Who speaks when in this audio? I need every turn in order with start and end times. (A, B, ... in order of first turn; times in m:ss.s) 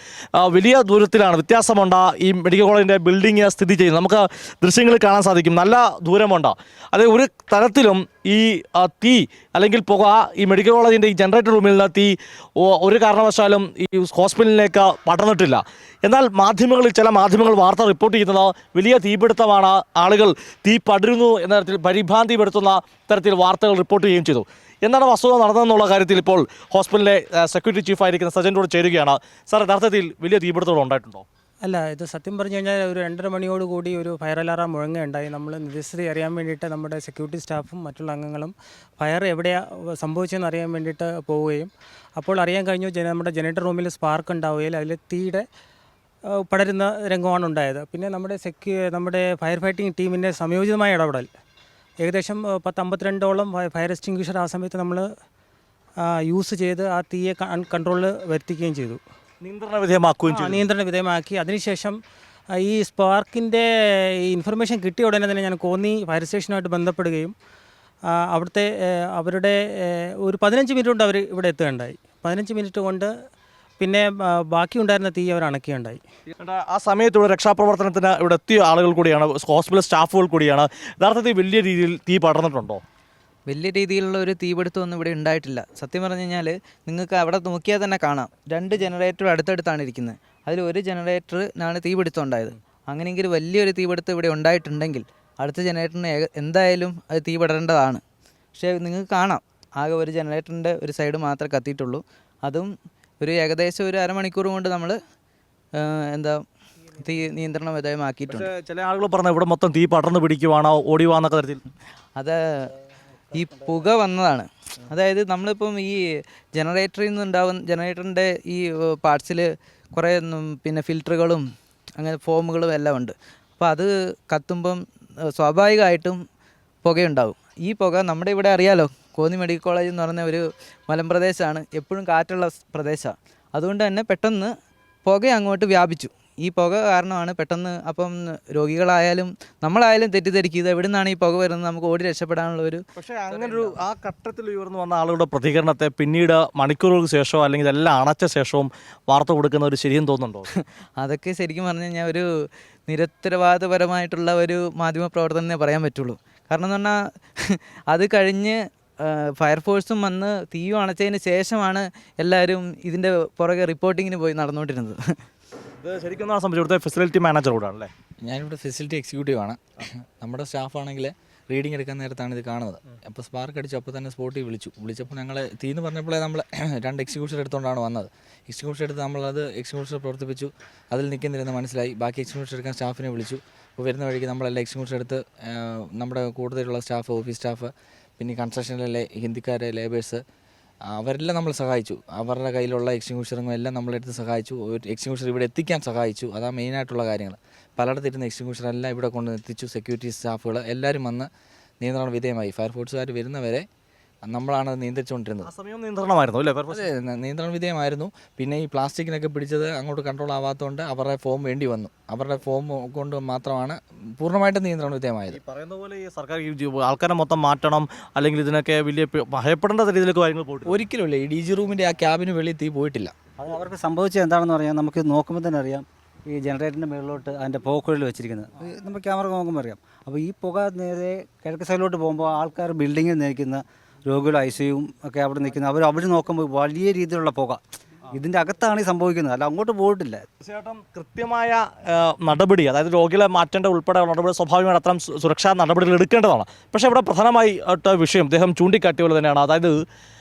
0:00.4-0:31.2 A
0:31.6-0:45.4 B
0:46.3-0:51.3 B
0:52.0-0:55.0 B
0:56.0-0:59.0 B
0:59.4-1:00.6 A
1:00.3-1:02.0 B
1:02.6-1:03.7 B
1:04.2-1:07.3 B
1:08.1-1:13.1 B
1:13.8-1:16.0 B
1:16.4-1:22.8 A
1:23.5-1:38.0 C
1:38.6-1:45.0 C
1:45.8-1:46.4 C
1:47.0-1:48.5 C
1:48.3-1:51.6 A
1:52.2-1:52.7 C
1:53.3-1:56.0 C
1:56.6-2:01.4 C
2:02.0-2:04.8 C
2:05.4-2:06.2 C
2:06.8-2:14.5 C
2:15.0-2:23.8 C
2:23.0-2:30.5 A
2:30.6-2:32.2 C
2:32.9-2:45.0 C
2:45.8-2:47.9 A
2:48.2-3:10.2 D
3:10.9-3:21.3 D
3:21.8-3:23.6 D
3:24.2-3:25.5 D
3:25.4-3:26.9 A
3:26.7-3:35.4 D
3:35.3-3:40.7 A
3:40.6-3:43.1 D
3:43.4-3:57.6 E
3:58.1-4:00.2 E
4:00.4-4:09.8 A